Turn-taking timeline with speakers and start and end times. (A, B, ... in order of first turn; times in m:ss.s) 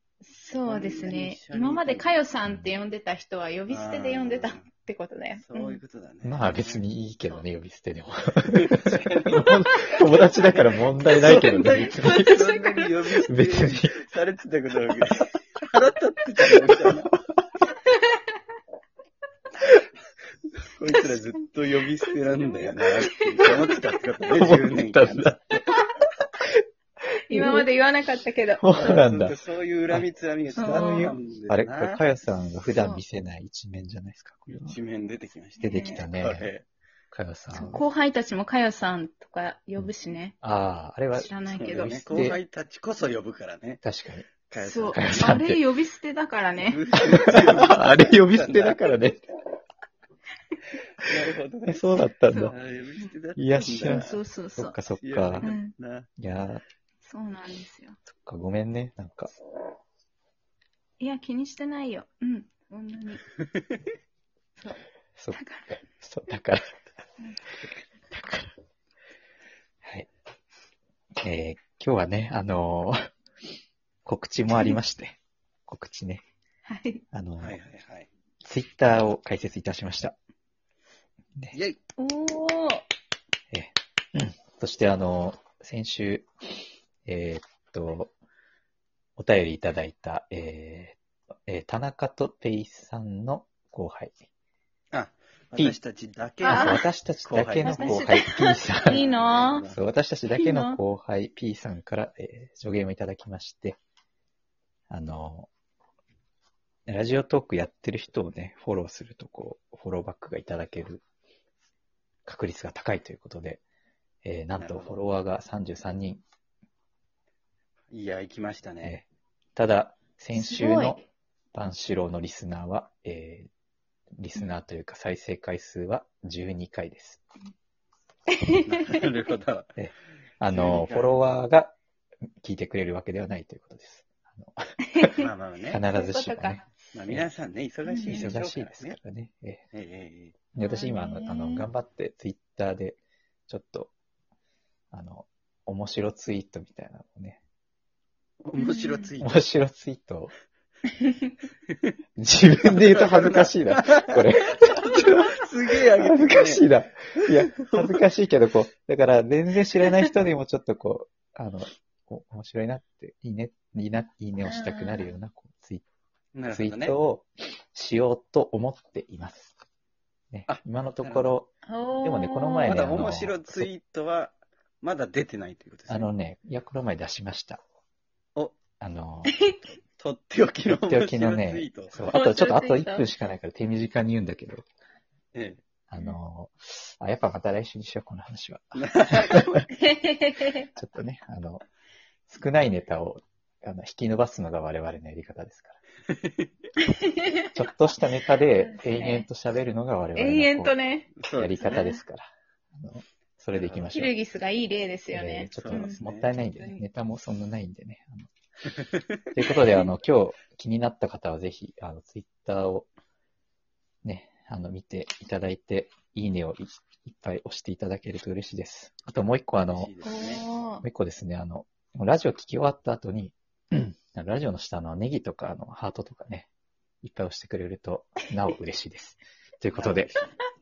0:00.2-0:05.8 A
0:00.6-0:02.2 B
0:02.4-0:02.7 C
0:03.7-0:04.7 B
0:05.4-0:06.8 B
0:06.2-0:12.4 C
0:08.5-0:09.6 B
0:09.7-0:10.1 A
0:10.5-0:17.2 B
0:11.3-0:13.3 A
0:13.3-0:14.0 C
0:17.9-0:18.3 A
0:20.7-0:25.5 B
0:21.0-0:21.4 A
0:22.0-0:24.0 A
0:24.3-0:25.6 C
0:25.7-0:25.9 A
0:27.3-0:28.6 A
0:27.3-0:27.6 C
0:28.6-0:29.4 C
0:28.7-0:32.0 B
0:29.9-0:34.8 C
0:30.6-0:31.2 A
0:32.6-0:33.0 A
0:34.5-0:36.6 B
0:35.6-0:36.1 A
0:35.6-0:36.5 C
0:37.1-0:37.8 C
0:37.5-0:40.4 A
0:40.4-0:42.4 C
0:41.1-0:42.3 A
0:41.5-0:43.8 B
0:43.8-0:44.3 C
0:44.5-0:45.2 B
0:44.6-0:47.4 A
0:44.9-0:45.6 C
0:46.6-0:48.8 B
0:47.1-0:49.2 C
0:51.0-0:51.9 B
0:51.7-0:52.6 C
0:52.3-0:53.1 A
0:52.5-0:54.2 B
0:53.4-0:55.5 C
0:53.8-0:54.8 A
0:54.9-0:56.1 B
0:55.4-0:55.8 A
0:56.2-0:56.6 C
0:57.0-0:58.0 A
0:58.1-0:59.3 C
1:01.0-1:03.3 A
1:05.2-1:06.8 C
1:05.3-1:05.8 A
1:08.1-1:08.5 C
1:09.8-1:10.1 C
1:11.2-1:13.1 C
1:14.0-1:16.2 C
1:16.7-1:17.0 A
1:17.1-1:17.6 C
1:17.4-1:18.1 B
1:18.4-1:20.2 C
1:21.5-1:21.8 B
1:22.0-1:22.9 A
1:23.5-1:26.3 C
1:27.0-1:28.1 C
1:29.2-1:34.2 C
1:34.9-1:38.2 B
1:36.4-1:36.8 A
1:36.4-1:39.0 C
1:37.6-1:39.7 A
1:38.8-1:39.8 B
1:39.6-1:43.8 C
1:40.3-1:40.8 A
1:44.9-1:45.5 C
1:46.9-1:51.0 C
1:52.3-1:53.6 C
1:54.2-1:56.2 C
1:54.6-1:55.0 B
1:57.9-1:59.0 B
1:59.6-2:01.0 C
2:00.3-2:01.0 A
2:01.5-2:03.5 C
2:04.2-2:07.2 C
2:08.3-2:09.1 A
2:08.6-2:09.7 B
2:09.8-2:11.8 C
2:10.5-2:11.3 B
2:12.4-2:15.1 C
2:14.9-2:16.7 A
2:15.1-2:15.8 B
2:15.7-2:17.3 C
2:16.9-2:19.0 B
2:17.9-2:18.3 A
2:18.0-2:19.7 C
2:19.7-2:20.4 B
2:20.5-2:23.9 C
2:20.6-2:21.7 A
2:24.9-2:27.4 C
2:28.4-2:29.5 B
2:28.6-2:29.1 A
2:29.2-2:30.3 C
2:31.0-2:31.4 A
2:32.2-2:45.8 C
2:32.6-2:38.0 B
2:44.4-2:45.2 A
2:46.3-2:47.0 B
2:46.5-2:49.5 C
2:50.3-2:51.5 C
2:50.5-2:51.3 B
2:51.6-2:52.8 A
2:52.0-2:53.7 C
2:52.7-2:56.1 B
2:55.9-2:57.6 C
2:58.4-2:58.6 B
2:58.8-2:59.4 C
2:59.2-2:59.6 A
3:00.0-3:02.1 B
3:00.6-3:04.6 C
3:02.1-3:03.1 A
3:05.3-3:05.6 B
3:05.9-3:09.6 C
3:08.7-3:09.7 B
3:09.7-3:10.7 A
3:10.8-3:11.6 C
3:12.3-3:15.8 C
3:16.1-3:16.5 B
3:16.8-3:17.5 A
3:17.5-3:24.2 C
3:18.5-3:19.3 A
3:20.2-3:22.0 A
3:21.2-3:21.8 B
3:23.5-3:23.9 B
3:23.9-3:26.8 A
3:25.1-3:28.3 C
3:25.6-3:26.3 B
3:29.3-3:32.9 C
3:34.0-3:39.9 C
3:39.7-3:40.4 B
3:40.0-3:40.8 A
3:40.8-3:46.5 C
3:47.0-3:50.2 C
3:49.7-3:50.3 B